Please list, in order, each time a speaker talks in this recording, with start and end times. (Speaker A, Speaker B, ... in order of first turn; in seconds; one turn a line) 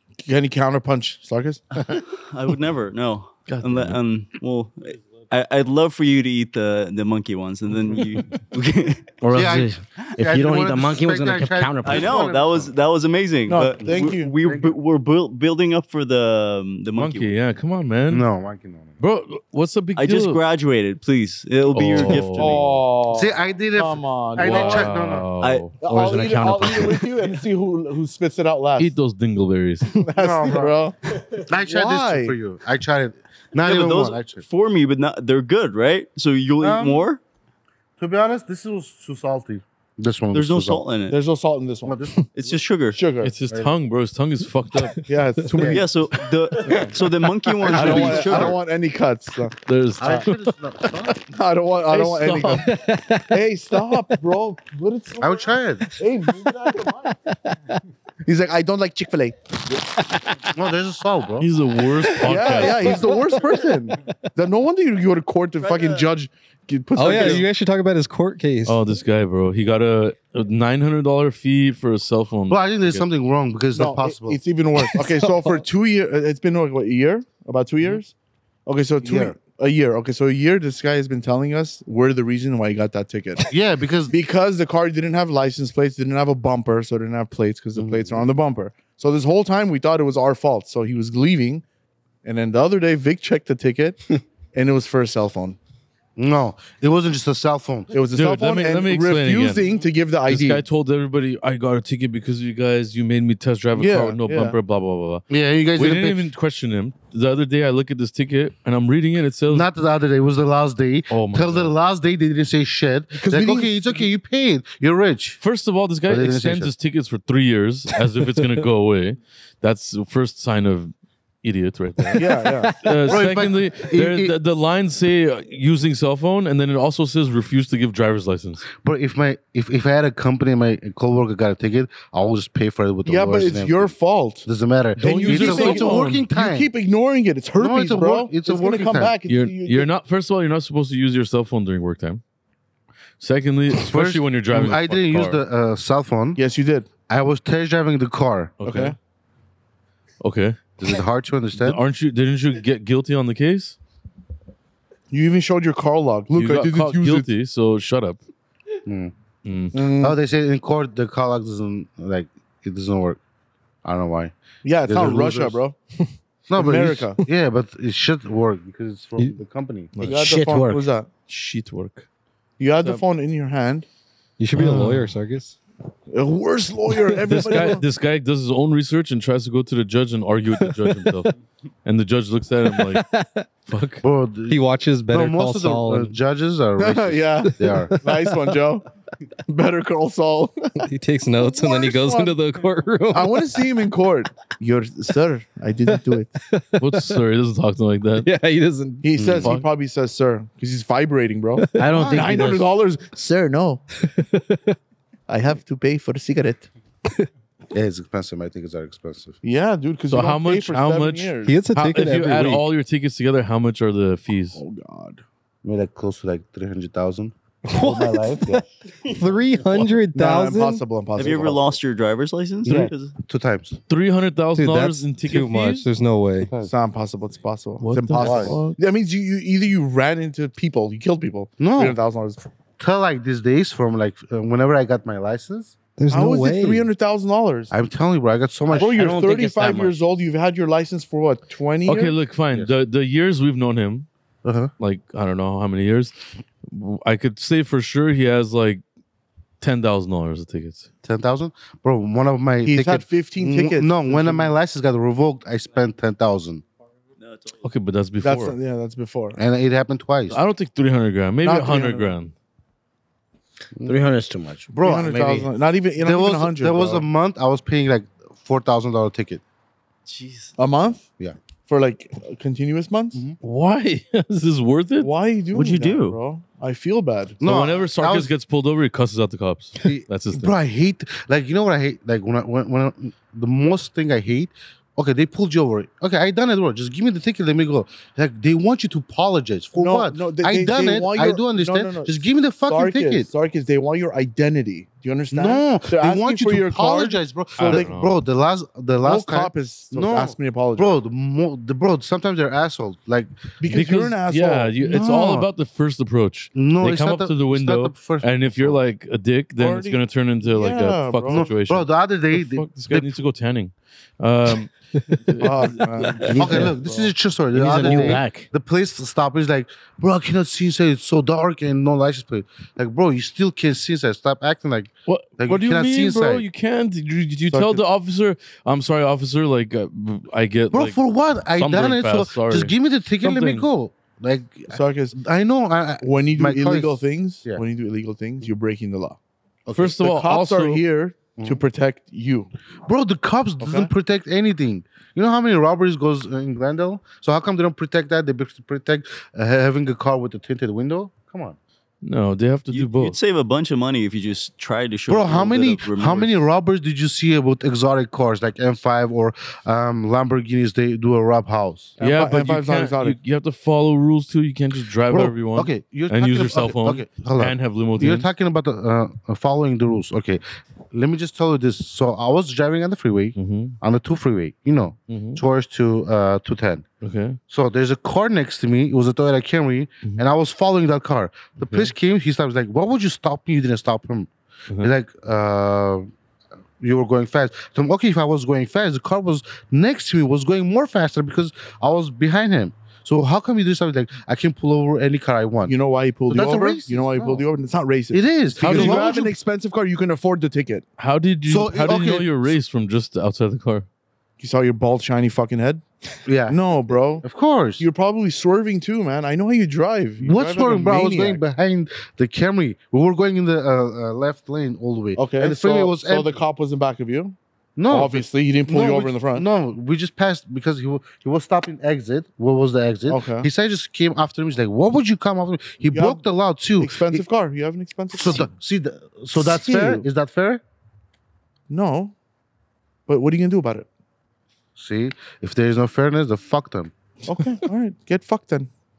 Speaker A: 0.2-1.6
Speaker B: 1.9-9.1
Speaker C: 3.5-4.0
Speaker D: 9.2-12.2
Speaker E: 9.3-12.7
Speaker B: 11.8-17.4
Speaker A: 13.5-14.3
Speaker E: 13.8-14.8
Speaker C: 16.9-18.2
Speaker E: 18.1-18.9
Speaker C: 19.0-20.4
Speaker B: 19.9-22.8
Speaker C: 21.7-22.6
Speaker A: 22.3-24.9
Speaker E: 23.1-25.3
Speaker C: 24.4-25.8
Speaker B: 25.4-25.7
Speaker A: 25.8-28.9
Speaker D: 25.8-27.2
Speaker C: 28.8-30.0
Speaker A: 30.0-31.0
Speaker E: 30.2-30.8
Speaker E: 31.4-34.4
Speaker A: 31.5-32.3
Speaker B: 33.6-37.2
Speaker E: 36.6-37.1
Speaker E: 38.0-40.8
Speaker B: 40.3-41.2
Speaker A: 41.1-42.0
Speaker E: 41.8-42.6
Speaker B: 42.3-43.0
Speaker A: 42.9-43.3
Speaker C: 43.2-45.0
Speaker F: 44.8-45.8
Speaker A: 45.1-45.9
Speaker E: 45.5-45.8
Speaker B: 45.6-48.6
Speaker A: 46.6-47.0
Speaker E: 47.5-48.6
Speaker A: 47.6-50.3
Speaker C: 49.6-50.4
Speaker E: 50.0-51.2
Speaker A: 51.3-52.8
Speaker C: 51.9-52.7
Speaker F: 52.6-54.1
Speaker A: 53.3-57.1
Speaker E: 55.2-55.9
Speaker F: 55.9-56.5
Speaker F: 57.2-57.8
Speaker A: 58.2-59.8
Speaker E: 60.5-61.5
Speaker C: 61.4-63.1
Speaker A: 62.2-67.5
Speaker F: 62.3-64.3
Speaker B: 65.6-66.1
Speaker F: 66.9-68.8
Speaker C: 68.6-73.1
Speaker E: 72.5-74.4
Speaker A: 73.7-78.1
Speaker F: 74.8-75.7
Speaker A: 78.7-83.4
Speaker E: 79.0-79.3
Speaker E: 83.5-84.2
Speaker A: 84.1-91.6
Speaker E: 87.8-88.2
Speaker A: 92.2-95.6
Speaker E: 96.2-97.9
Speaker A: 97.9-100.6
Speaker C: 98.1-99.7
Speaker C: 100.3-105.2
Speaker A: 103.7-104.5
Speaker E: 105.3-106.2
Speaker C: 105.8-109.7
Speaker E: 109.5-115.4
Speaker C: 111.1-111.7
Speaker A: 113.1-114.1
Speaker C: 115.4-120.9
Speaker E: 116.1-116.7
Speaker C: 121.4-128.6
Speaker F: 122.0-123.1
Speaker A: 122.2-122.7
Speaker E: 123.1-124.3
Speaker E: 128.8-133.9
Speaker A: 133.0-139.9
Speaker E: 134.4-136.7
Speaker C: 135.0-136.2
Speaker E: 137.6-139.1
Speaker C: 139.3-142.2
Speaker C: 143.2-145.4
Speaker E: 143.7-146.4
Speaker A: 146.3-146.9
Speaker E: 147.1-148.6
Speaker C: 148.6-148.9
Speaker A: 148.6-148.9
Speaker C: 150.2-150.6
Speaker E: 150.8-151.8
Speaker C: 151.5-153.8
Speaker A: 155.1-157.3
Speaker C: 156.3-158.2
Speaker E: 158.8-159.1
Speaker C: 159.4-159.8
Speaker A: 159.7-160.2
Speaker E: 160.0-163.2
Speaker E: 163.8-165.6
Speaker A: 164.6-165.8
Speaker E: 166.5-169.9
Speaker A: 166.5-167.2
Speaker C: 169.9-170.3
Speaker D: 170.0-170.9
Speaker A: 170.0-171.1
Speaker C: 171.3-172.1
Speaker A: 172.6-173.9
Speaker C: 172.8-173.0
Speaker F: 174.4-175.6
Speaker C: 174.5-175.1
Speaker A: 176.1-177.8
Speaker F: 176.9-177.7
Speaker C: 177.3-181.3
Speaker F: 180.7-181.2
Speaker C: 181.8-183.1
Speaker F: 182.7-183.4
Speaker C: 183.7-184.0
Speaker E: 184.0-187.9
Speaker F: 184.5-186.1
Speaker A: 186.8-188.8
Speaker F: 187.6-188.5
Speaker A: 189.4-190.9
Speaker F: 190.8-193.6
Speaker A: 191.4-192.4
Speaker A: 193.1-196.3
Speaker F: 196.4-197.2
Speaker C: 196.8-198.3
Speaker F: 198.2-199.3
Speaker A: 199.0-203.8
Speaker E: 199.2-199.5
Speaker C: 199.4-199.7
Speaker F: 201.6-202.0
Speaker D: 201.8-202.7
Speaker F: 204.0-204.8
Speaker A: 205.3-206.7
Speaker E: 207.7-209.4
Speaker A: 209.4-211.6
Speaker C: 210.1-214.6
Speaker F: 211.4-212.6
Speaker A: 214.5-215.2
Speaker E: 215.6-218.6
Speaker F: 217.7-218.6
Speaker F: 219.1-220.8
Speaker A: 220.1-221.8
Speaker B: 221.2-223.1
Speaker E: 222.6-223.8
Speaker C: 223.9-225.9
Speaker F: 224.6-226.5
Speaker E: 226.4-226.7
Speaker A: 226.6-232.4
Speaker C: 227.8-228.8
Speaker E: 228.2-228.6
Speaker E: 231.6-232.0
Speaker E: 232.8-235.7
Speaker F: 236.0-236.9
Speaker A: 236.1-237.7
Speaker E: 237.7-239.0
Speaker D: 238.7-239.9
Speaker A: 238.7-242.2
Speaker C: 241.8-244.1
Speaker E: 244.4-244.7
Speaker C: 244.8-246.1
Speaker C: 246.7-248.8
Speaker C: 249.6-250.9
Speaker E: 251.0-256.6
Speaker A: 252.6-254.5
Speaker B: 257.2-257.6
Speaker C: 257.6-258.6
Speaker A: 258.2-259.4
Speaker E: 259.4-260.4
Speaker C: 260.3-262.3
Speaker A: 261.4-262.1
Speaker D: 263.9-265.5
Speaker A: 264.7-267.0
Speaker E: 264.8-265.2
Speaker E: 266.0-269.4
Speaker B: 270.1-270.5
Speaker A: 270.6-271.1
Speaker A: 271.6-273.2
Speaker C: 273.4-275.1
Speaker A: 275.0-277.4
Speaker B: 275.5-276.2
Speaker E: 277.4-278.3
Speaker C: 277.4-280.6
Speaker E: 279.8-293.3
Speaker A: 289.8-297.9
Speaker E: 295.3-303.3
Speaker C: 297.6-298.1
Speaker A: 299.0-300.9
Speaker A: 303.6-304.8
Speaker C: 303.7-316.3
Speaker E: 304.8-305.5
Speaker E: 306.5-308.8
Speaker A: 309.6-311.5
Speaker E: 311.3-313.2
Speaker A: 315.4-317.1
Speaker E: 316.3-326.4
Speaker D: 316.4-316.7
Speaker D: 317.5-318.5
Speaker C: 325.1-331.0
Speaker A: 327.5-327.8
Speaker E: 330.7-337.6
Speaker C: 331.5-333.7
Speaker A: 334.7-335.1
Speaker A: 336.0-339.2
Speaker E: 339.6-339.9
Speaker C: 339.7-340.8
Speaker A: 339.9-342.5
Speaker E: 341.4-341.6
Speaker E: 342.9-351.6
Speaker A: 343.6-343.9
Speaker C: 352.0-353.2
Speaker B: 352.7-356.4
Speaker E: 355.1-361.9
Speaker A: 362.0-363.2
Speaker C: 362.0-368.3
Speaker E: 365.1-376.8
Speaker C: 373.4-373.8
Speaker C: 375.1-375.4
Speaker C: 377.0-377.4
Speaker E: 377.5-386.1
Speaker C: 381.6-381.9
Speaker E: 386.8-395.8
Speaker A: 395.6-400.8
Speaker E: 396.3-397.4
Speaker E: 398.1-399.3
Speaker C: 398.6-399.2
Speaker C: 401.0-403.9
Speaker E: 401.4-402.6
Speaker A: 404.4-405.8
Speaker E: 406.2-407.9
Speaker A: 406.5-407.2
Speaker A: 407.8-411.4
Speaker E: 410.2-416.4
Speaker A: 415.1-417.4
Speaker E: 417.8-427.2
Speaker A: 417.9-419.4
Speaker A: 423.1-423.5
Speaker A: 425.9-426.2
Speaker A: 426.8-428.5
Speaker E: 428.1-430.6
Speaker A: 429.4-430.0
Speaker A: 431.7-432.1
Speaker A: 433.1-433.9
Speaker E: 434.8-436.9
Speaker A: 437.2-438.7